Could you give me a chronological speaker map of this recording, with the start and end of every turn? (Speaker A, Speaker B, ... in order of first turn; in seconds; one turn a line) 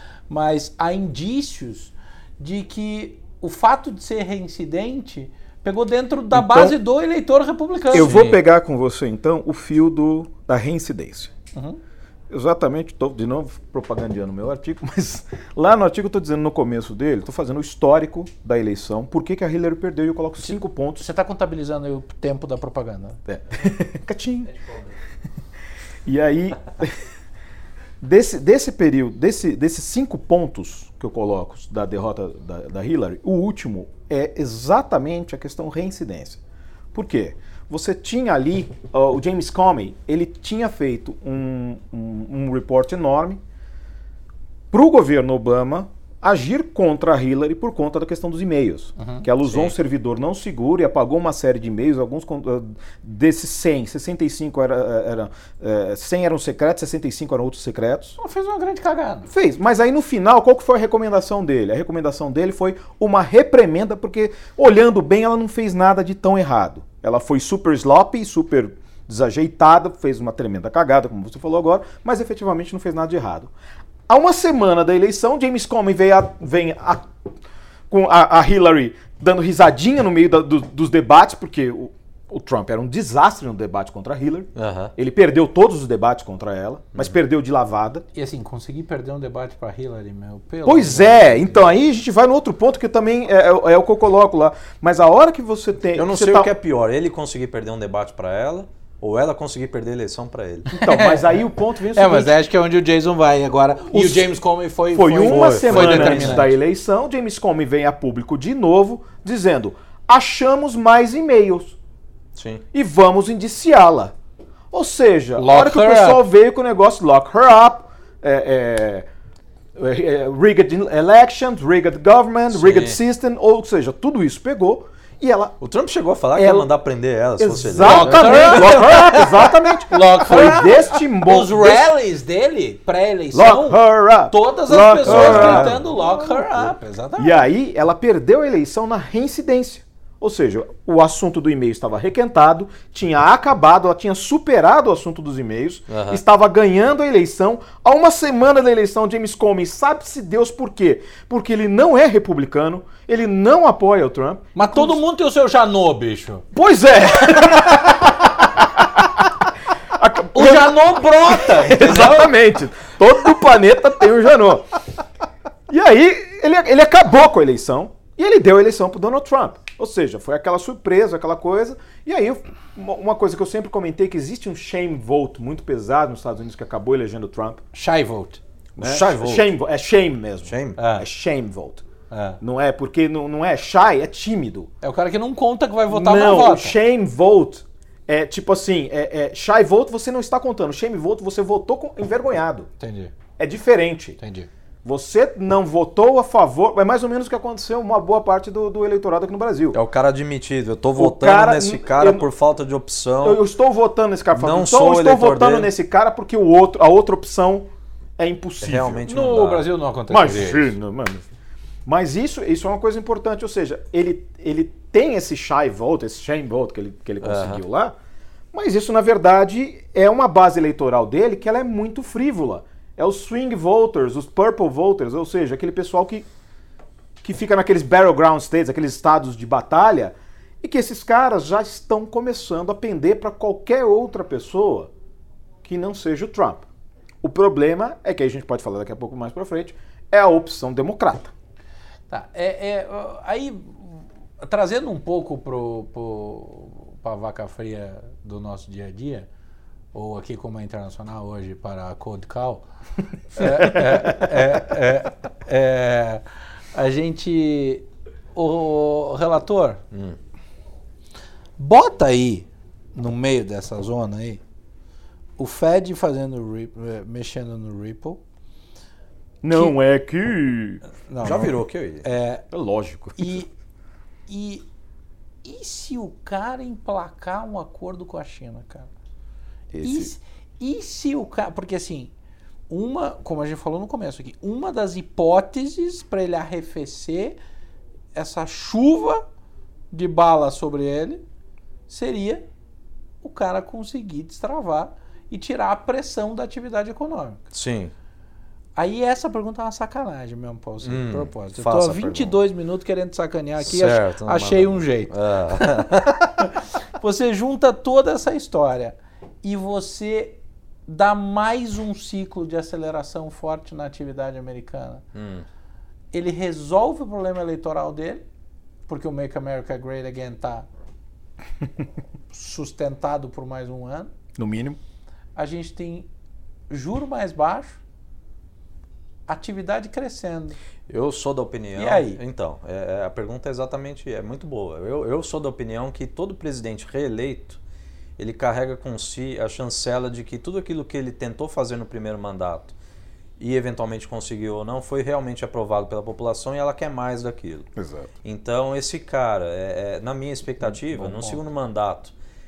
Speaker A: 0.3-8.1
Speaker B: 6.3-6.8
Speaker B: 7.9-11.3
Speaker C: 7.9-8.4
Speaker A: 11.5-11.8
Speaker B: 12.3-21.1
Speaker A: 20.5-23.2
Speaker B: 23.3-24.5
Speaker B: 26.1-27.0
Speaker B: 28.0-36.4
Speaker B: 36.9-43.4
Speaker B: 44.7-58.2
Speaker A: 49.0-49.3
Speaker C: 49.4-49.7
Speaker A: 58.2-59.3
Speaker B: 59.3-73.5
Speaker B: 74.1-77.2
Speaker B: 77.9-88.0
Speaker C: 84.6-84.9
Speaker A: 88.2-91.6
Speaker B: 90.7-96.5
Speaker C: 95.9-100.7
Speaker B: 100.7-102.3
Speaker A: 100.8-101.2
Speaker A: 101.9-106.5
Speaker B: 103.9-104.3
Speaker B: 104.9-111.8
Speaker C: 105.2-106.5
Speaker C: 112.4-112.6
Speaker B: 112.7-114.1
Speaker B: 114.7-119.1
Speaker A: 115.4-116.2
Speaker B: 119.8-125.6
Speaker C: 122.5-123.0
Speaker C: 125.6-129.3
Speaker B: 126.3-126.7
Speaker B: 127.4-131.9
Speaker A: 127.8-137.4
Speaker B: 133.3-155.0
Speaker C: 135.1-135.8
Speaker C: 145.9-146.2
Speaker A: 154.6-156.5
Speaker B: 156.5-164.7
Speaker A: 160.3-162.3
Speaker B: 165.7-177.6
Speaker A: 177.7-178.4
Speaker C: 178.8-179.5
Speaker B: 178.8-181.8
Speaker C: 180.5-180.8
Speaker A: 180.8-181.1
Speaker A: 182.1-182.4
Speaker B: 182.4-184.7
Speaker A: 184.8-186.8
Speaker B: 185.9-192.7
Speaker A: 192.8-193.1
Speaker B: 193.4-194.2
Speaker A: 194.2-194.5
Speaker B: 194.8-199.8
Speaker C: 199.7-203.4
Speaker B: 201.0-202.3
Speaker B: 203.2-209.1
Speaker C: 204.3-205.7
Speaker C: 208.6-209.7
Speaker A: 209.1-210.7
Speaker B: 210.1-211.3
Speaker B: 211.8-218.0
Speaker C: 217.2-217.6
Speaker B: 218.5-226.3
Speaker B: 227.2-234.9
Speaker B: 235.6-236.7
Speaker B: 237.2-241.3
Speaker A: 242.1-249.3
Speaker A: 249.9-252.7
Speaker A: 253.3-259.8
Speaker B: 253.6-254.2
Speaker C: 259.9-260.2
Speaker A: 261.6-264.4
Speaker A: 265.4-268.2
Speaker B: 269.4-270.8
Speaker A: 271.1-272.4
Speaker C: 271.2-272.1
Speaker B: 272.5-273.4
Speaker A: 273.2-273.5
Speaker A: 274.3-274.6
Speaker A: 275.4-278.9
Speaker B: 279.7-280.1
Speaker A: 279.8-282.1
Speaker A: 282.7-287.4
Speaker A: 288.1-289.2
Speaker A: 289.9-291.2
Speaker A: 291.9-292.4
Speaker A: 293.2-297.4
Speaker C: 297.5-297.9
Speaker A: 298.8-315.0
Speaker C: 300.8-302.4
Speaker C: 303.6-306.3
Speaker C: 315.1-315.4
Speaker A: 316.1-318.2
Speaker A: 318.9-320.7
Speaker A: 322.3-324.1
Speaker B: 324.4-324.8
Speaker A: 325.4-326.1
Speaker A: 326.7-327.8
Speaker A: 329.3-330.6
Speaker C: 330.9-337.6
Speaker A: 331.8-332.2
Speaker C: 338.2-342.7
Speaker C: 343.4-347.7
Speaker B: 347.8-348.1
Speaker C: 348.2-352.1
Speaker B: 350.7-351.4